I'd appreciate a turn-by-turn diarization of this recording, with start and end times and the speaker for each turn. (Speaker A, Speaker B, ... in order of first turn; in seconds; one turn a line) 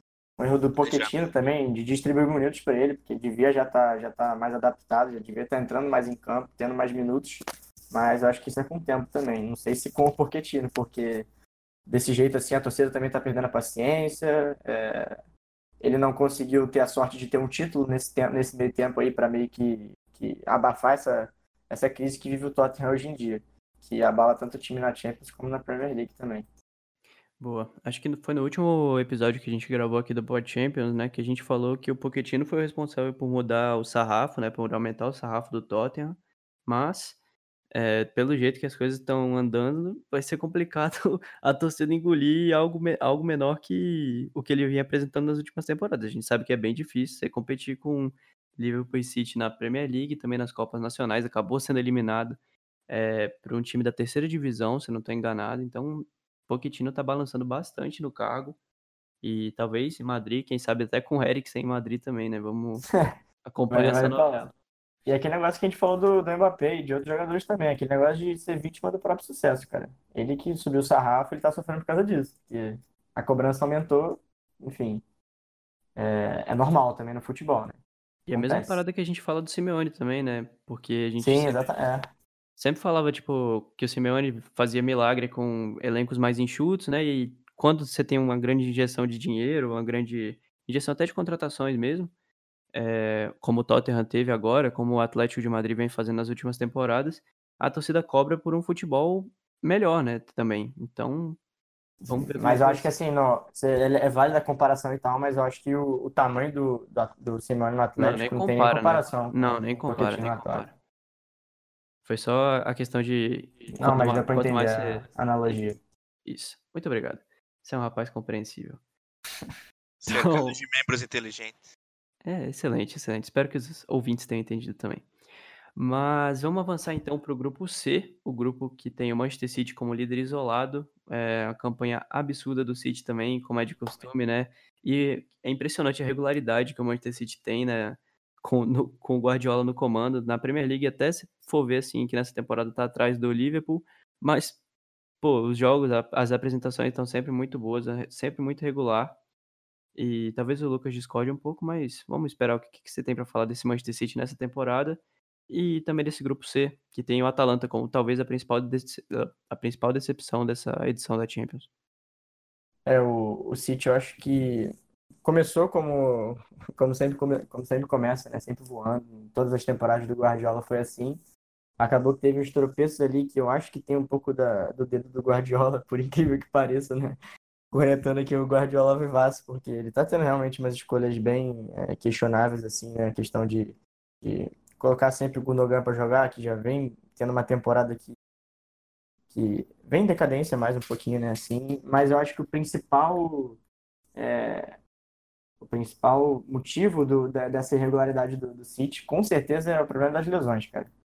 Speaker A: 0.4-11.3
Speaker B: 0.8-1.1
Speaker A: 11.9-15.2
Speaker A: 15.8-26.5
Speaker C: 27.4-37.2
Speaker C: 37.7-58.6
Speaker C: 59.2-62.9
Speaker C: 63.4-64.5
Speaker A: 63.7-64.5
Speaker A: 65.1-75.0
Speaker A: 76.0-77.8
Speaker C: 78.3-81.7
Speaker A: 78.3-78.8
Speaker A: 81.2-82.0
Speaker C: 82.6-92.1
Speaker C: 92.7-101.4
Speaker A: 102.0-110.7
Speaker C: 102.1-102.9
Speaker C: 108.0-110.7
Speaker C: 112.0-115.1
Speaker A: 113.7-115.8
Speaker C: 116.2-118.8
Speaker B: 120.0-121.7
Speaker C: 120.1-120.6
Speaker C: 122.2-125.1
Speaker C: 125.8-144.6
Speaker C: 145.2-149.2
Speaker C: 149.9-161.7
Speaker A: 162.9-171.2
Speaker A: 171.8-177.2
Speaker A: 177.7-188.1
Speaker A: 189.3-193.6
Speaker A: 194.1-194.8
Speaker A: 195.6-200.9